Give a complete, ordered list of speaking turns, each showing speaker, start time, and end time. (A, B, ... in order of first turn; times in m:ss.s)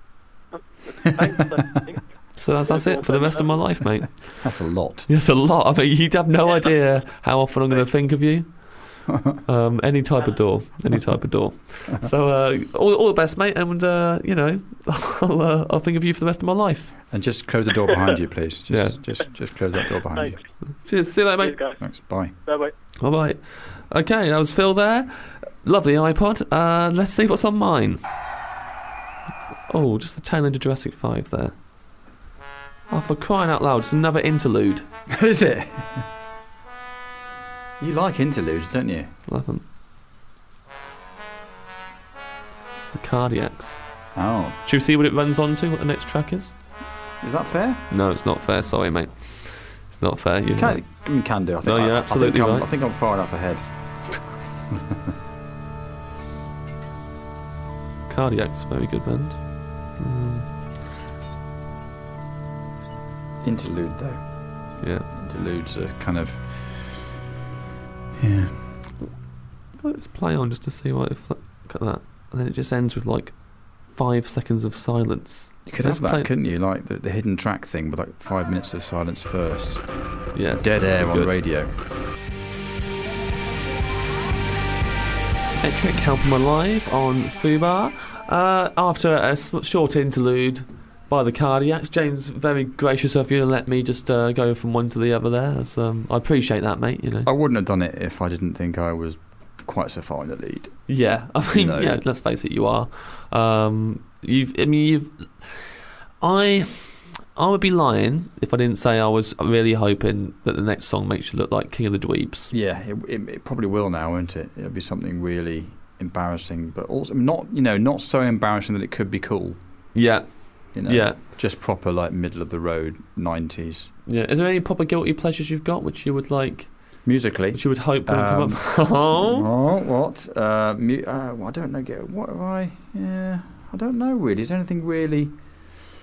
0:00.5-0:02.1 A
0:02.4-0:04.5 B
0:02.6-0:03.7 A
0:04.4-0:05.1 C
0:05.1-0:17.0 B
0:09.1-0:09.4 C
0:17.1-0:20.4 C
0:18.7-0:19.0 B
0:20.1-0:20.4 A
0:20.8-0:21.6 B
0:21.4-0:22.8 A
0:21.8-0:22.3 C
0:23.0-0:28.0 B
0:29.7-0:31.6 B
0:32.9-0:34.8 B
0:35.1-0:36.0 C
0:37.8-0:39.1 C
0:39.3-0:39.6 B
0:42.9-0:43.8 B
0:44.2-0:44.6 C
0:44.6-0:46.5 B
0:47.2-0:47.8 C
0:47.9-0:50.8 B
0:50.6-0:53.7 C
0:51.6-0:52.7 B
0:58.1-1:00.5 B
1:03.4-1:07.1 C
1:04.8-1:05.1 B
1:08.2-1:08.8 C
1:09.8-1:16.3 B
1:15.7-1:21.7 C
1:20.3-1:21.4 B
1:25.6-1:37.3 B
1:37.2-1:40.8 C
1:40.9-1:52.5 B
1:41.5-1:42.0 C
1:52.5-1:59.6 C
2:00.0-2:01.2 B
2:00.7-2:03.9 C
2:04.1-2:06.7 B
2:07.0-2:15.4 C
2:07.5-2:09.5 B